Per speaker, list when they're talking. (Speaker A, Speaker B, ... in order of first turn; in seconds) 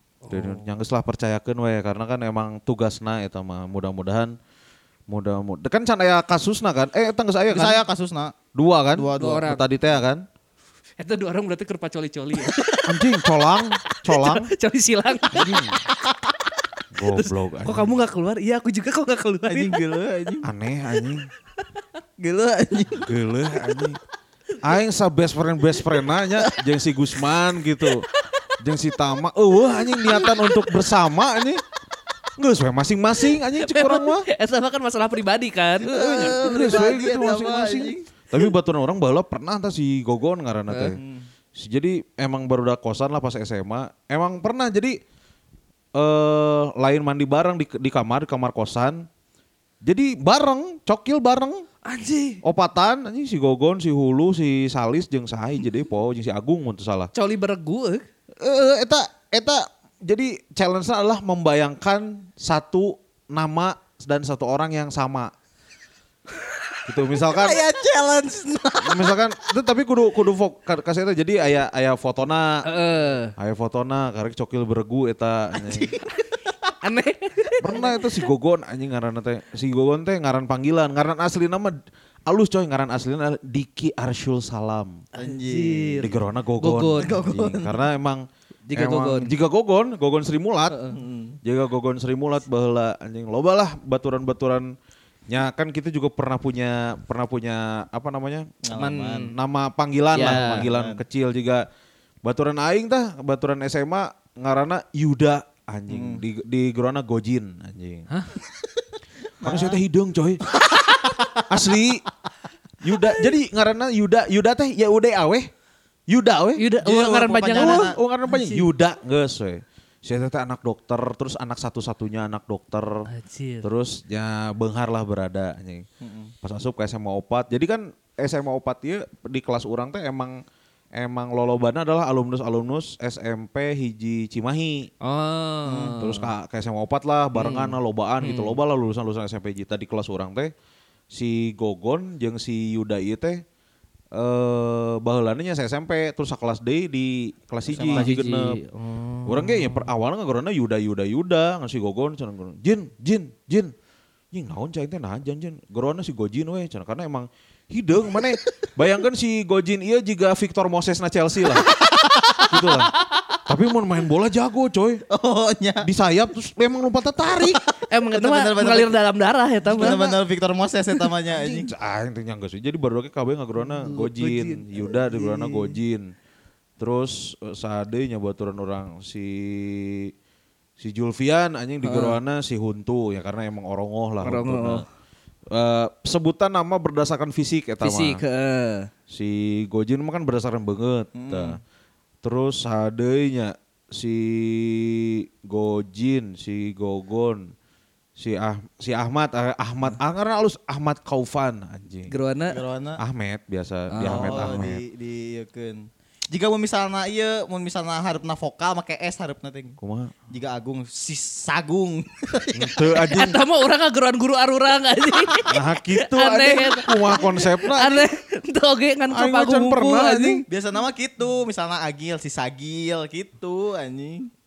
Speaker A: 0.2-0.7, 9.2-9.6, 11.0-13.2, 14.0-15.6, 17.1-19.8, 28.2-28.5, 29.9-30.7, 33.4-36.7, 40.7-41.0, 51.8-52.4, 57.1-58.0, 72.6-73.3, 76.8-77.6, 85.2-87.1, 88.7-89.3, 90.7-91.0, 100.1-100.7, 108.1-108.3, 116.6-118.7, 123.1-123.7, 135.0-136.3, 137.3-138.6, 147.9-149.9, 167.9-170.0, 173.7-175.7, 181.8-182.2, 184.2-184.8, 187.8-188.9, 202.1-202.6, 203.9-204.6, 213.1-220.4
Speaker B: 0.3-4.3, 5.1-7.8, 8.5-10.2, 12.9-14.5, 15.3-15.8, 16.9-17.9, 20.4-21.3, 22.9-24.0, 24.6-28.1, 28.6-31.6, 32.4-34.3, 35.8-41.0, 41.5-45.0, 45.9-49.1, 49.8-51.6, 52.4-57.1, 58.4-65.3, 66.9-67.6, 68.8-72.6, 73.3-75.9, 77.6-81.8, 82.3-85.0, 86.0-90.8, 91.4-94.7, 95.3-101.6, 102.2-108.1, 109.4-110.4, 111.5-112.0, 112.8-115.5, 116.1-116.8, 117.4-123.1, 123.6-125.8, 126.4-130.4, 130.9-134.9, 136.0-140.5, 141.1-143.4, 144.1-148.6, 149.2-153.7, 154.3-161.7, 162.5-162.9, 163.5-165.0, 165.8-167.6, 169.7-170.2, 171.3-176.1, 176.8-180.1, 180.8-184.8, 185.5-188.2, 189.1-191.6, 192.2-197.5, 198.2-202.1, 203.0-204.8, 209.8-210.1, 212.5-213.4, 215.5-218.1, 219.1-220.4
Speaker C: 7.5-8.4, 8.9-9.5, 19.5-20.5, 22.2-23.1, 35.9-38.0, 41.0-41.2, 67.2-69.1, 85.2-86.1, 87.0-87.8, 90.9-91.4, 98.6-99.3, 100.2-101.0, 105.9-106.2, 109.4-109.8, 110.7-111.6, 116.8-118.0, 126.0-126.3, 135.7-136.0, 147.7-148.1, 161.8-162.5, 165.1-165.9, 167.4-168.9, 169.7-171.7, 191.1-191.6, 202.5-203.0, 204.0-209.8, 210.3-212.8, 220.5-224.3